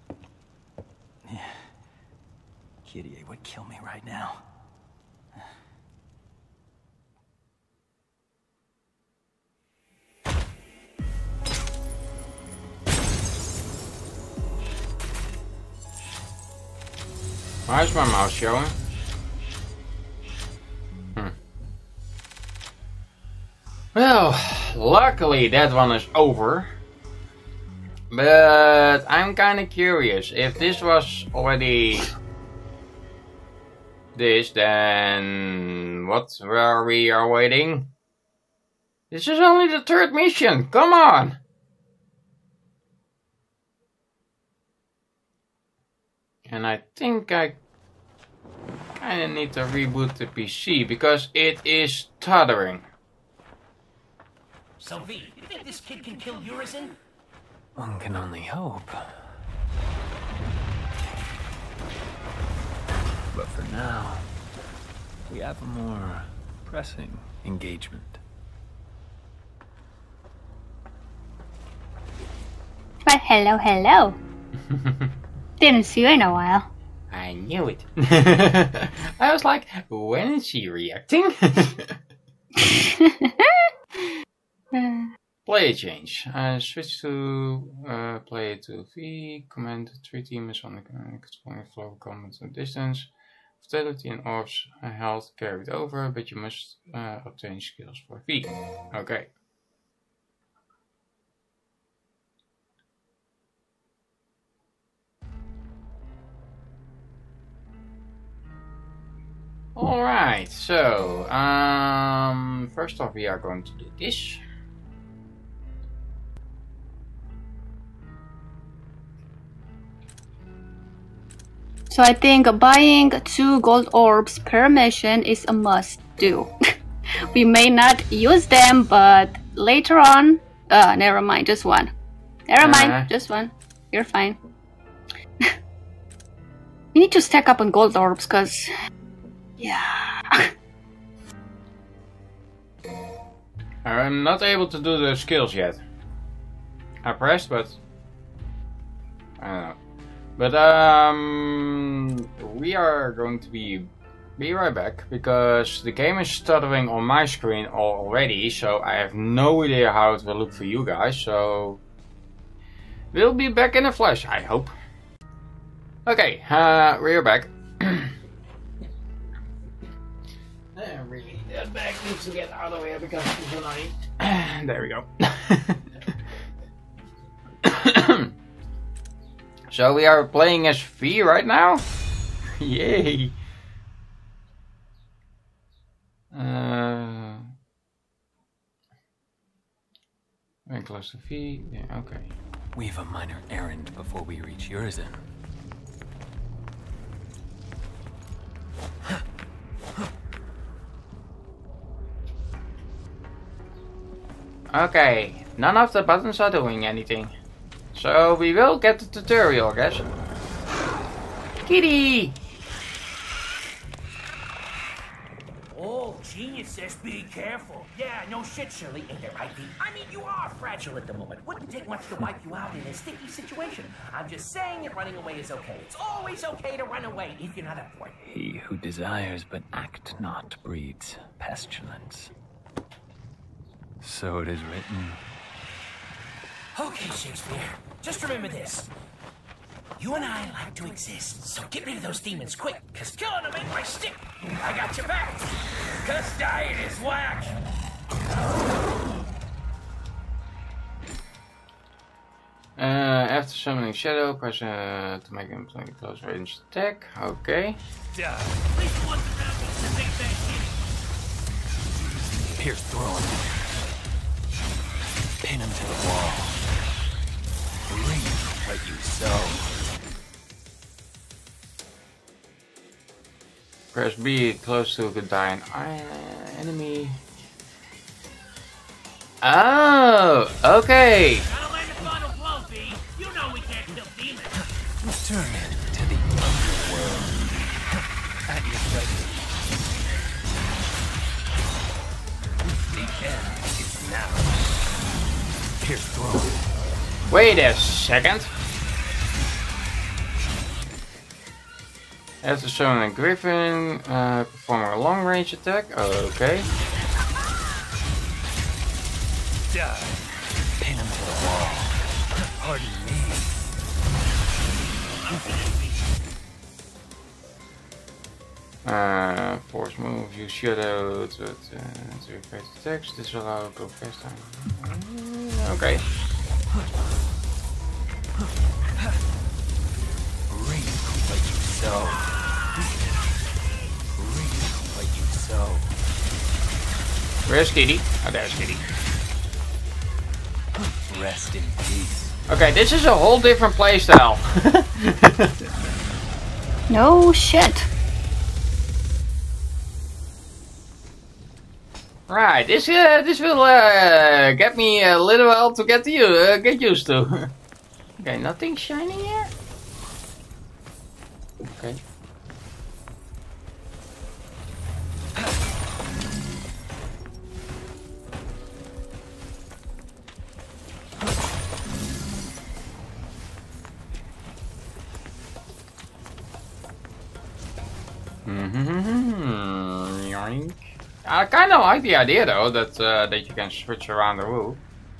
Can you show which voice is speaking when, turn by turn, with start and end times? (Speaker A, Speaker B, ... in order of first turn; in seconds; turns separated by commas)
Speaker A: 1.2-1.6, Speaker A: 2.9-4.4, Speaker B: 17.7-18.8, Speaker B: 23.9-26.7, Speaker B: 28.1-32.1, Speaker B: 34.1-37.9, Speaker B: 39.1-41.4, Speaker B: 46.5-47.6, Speaker B: 49.0-52.9, Speaker C: 54.8-57.0, Speaker A: 57.8-59.3, Speaker A: 63.3-64.3, Speaker A: 65.3-68.2, Speaker D: 73.1-74.2, Speaker B: 74.7-75.0, Speaker D: 75.6-76.7, Speaker B: 77.1-82.0, Speaker D: 82.6-83.5, Speaker D: 84.7-85.1, Speaker B: 85.5-93.1, Speaker B: 93.6-99.3, Speaker B: 109.8-114.4, Speaker D: 121.9-126.5, Speaker D: 127.3-131.9, Speaker D: 132.5-134.4, Speaker B: 132.6-133.1, Speaker D: 136.9-138.7, Speaker D: 139.6-140.5, Speaker B: 143.8-145.8, Speaker B: 147.0-147.8, Speaker B: 149.4-149.8, Speaker B: 150.4-161.8, Speaker B: 163.1-164.7, Speaker B: 166.1-168.1, Speaker B: 170.8-175.8, Speaker B: 177.6-178.3, Speaker B: 179.7-181.8, Speaker B: 182.6-183.4, Speaker B: 186.3-187.5, Speaker B: 190.7-192.3, Speaker A: 192.7-195.2, Speaker B: 204.7-207.3, Speaker B: 207.9-210.1, Speaker B: 211.7-212.4, Speaker C: 215.7-228.2, Speaker A: 228.2-232.3, Speaker A: 234.0-235.2, Speaker C: 236.7-238.9, Speaker C: 240.0-247.6, Speaker B: 252.8-257.8, Speaker C: 258.2-260.8, Speaker A: 262.5-263.6, Speaker A: 265.4-266.6, Speaker A: 267.9-269.7, Speaker B: 273.9-277.2, Speaker B: 279.4-281.4, Speaker C: 281.5-284.6, Speaker A: 285.0-287.4, Speaker A: 288.5-289.5, Speaker A: 292.9-294.7, Speaker A: 295.8-296.6, Speaker B: 297.3-298.5, Speaker B: 302.4-306.7, Speaker A: 310.8-312.0, Speaker A: 312.6-313.6, Speaker B: 318.9-326.1, Speaker A: 330.5-332.4, Speaker A: 334.1-336.0, Speaker B: 337.5-338.8, Speaker A: 340.9-342.4, Speaker B: 342.5-345.6, Speaker D: 346.9-347.9, Speaker B: 352.3-357.5, Speaker B: 358.2-359.5, Speaker B: 361.6-362.0, Speaker B: 378.5-384.8